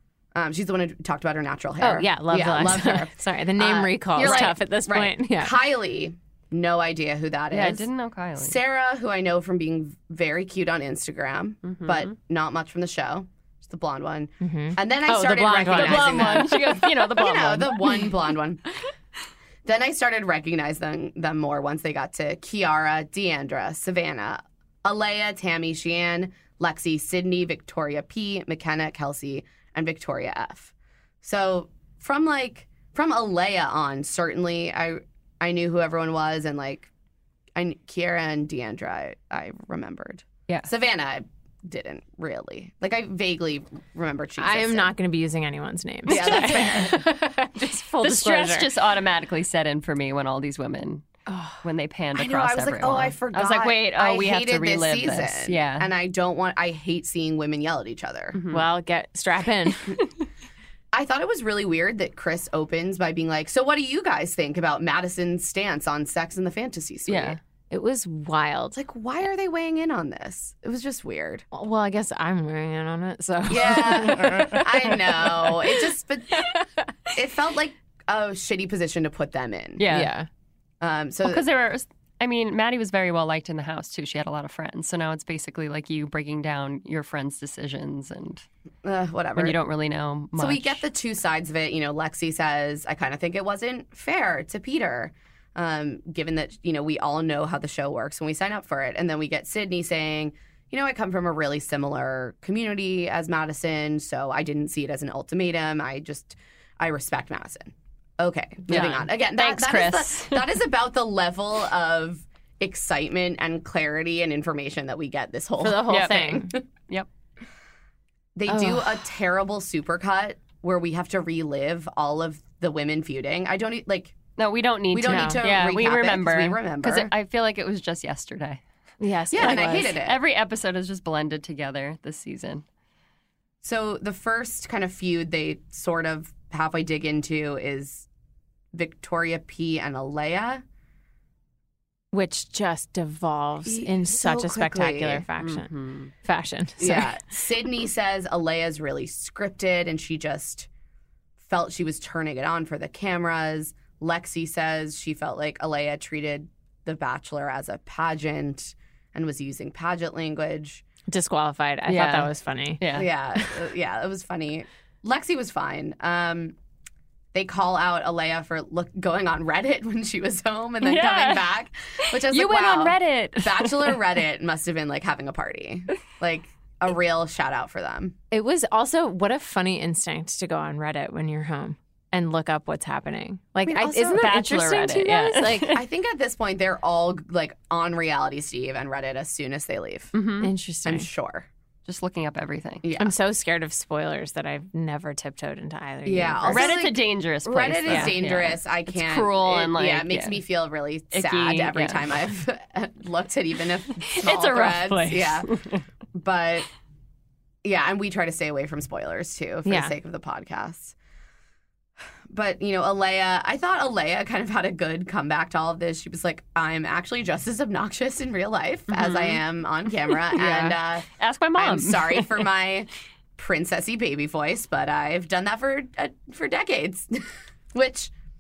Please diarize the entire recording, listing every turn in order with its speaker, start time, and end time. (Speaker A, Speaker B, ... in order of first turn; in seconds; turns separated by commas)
Speaker A: 0.3-18.6, Speaker B: 1.8-5.5, Speaker C: 4.2-4.5, Speaker C: 7.5-8.6, Speaker C: 11.6-12.1, Speaker B: 14.4-16.7, Speaker C: 15.7-18.1, Speaker A: 19.6-30.7, Speaker A: 31.2-36.9, Speaker A: 37.5-44.9, Speaker B: 44.4-48.7, Speaker A: 46.1-47.0, Speaker C: 46.1-46.8, Speaker C: 48.0-51.0, Speaker B: 51.3-51.6, Speaker C: 51.6-55.9, Speaker A: 52.1-58.4, Speaker C: 58.3-58.6, Speaker B: 58.5-59.9, Speaker A: 60.9-67.4, Speaker C: 67.1-67.4, Speaker B: 67.7-68.8, Speaker A: 68.8-71.4, Speaker B: 71.5-75.5, Speaker A: 73.5-76.6, Speaker A: 77.1-79.9, Speaker C: 79.8-80.1, Speaker B: 79.9-80.3, Speaker A: 80.8-81.4, Speaker C: 81.2-88.5, Speaker A: 88.8-89.6, Speaker C: 89.3-90.8, Speaker A: 90.3-116.6, Speaker C: 108.7-110.5, Speaker B: 115.6-116.5, Speaker C: 115.9-117.1, Speaker A: 118.3-124.2, Speaker B: 118.5-119.0, Speaker C: 124.4-128.6, Speaker A: 124.9-127.1, Speaker B: 125.1-125.4, Speaker B: 129.0-130.0, Speaker A: 129.3-130.2, Speaker C: 129.3-132.6, Speaker A: 133.6-138.1, Speaker A: 138.7-140.6, Speaker B: 142.1-145.7, Speaker A: 143.7-145.2, Speaker C: 145.4-146.1, Speaker B: 146.2-147.1, Speaker A: 146.8-150.7, Speaker A: 151.4-160.8, Speaker B: 161.1-162.8, Speaker C: 161.9-163.1, Speaker A: 162.9-166.5, Speaker A: 167.3-178.2, Speaker C: 170.8-171.5, Speaker C: 172.0-174.0, Speaker B: 178.3-185.8, Speaker A: 183.6-184.3, Speaker C: 184.1-185.8, Speaker A: 185.7-190.2, Speaker C: 190.1-190.5, Speaker B: 190.4-191.1, Speaker A: 190.8-191.5, Speaker C: 191.8-192.8, Speaker A: 192.8-193.1, Speaker B: 193.0-196.8, Speaker A: 196.0-205.5, Speaker C: 196.4-200.4, Speaker B: 197.9-198.2, Speaker C: 201.1-202.1, Speaker C: 204.1-205.8, Speaker A: 206.1-206.7, Speaker A: 207.6-210.9, Speaker B: 209.7-209.9, Speaker A: 212.3-228.1, Speaker C: 218.9-219.4, Speaker C: 220.1-222.5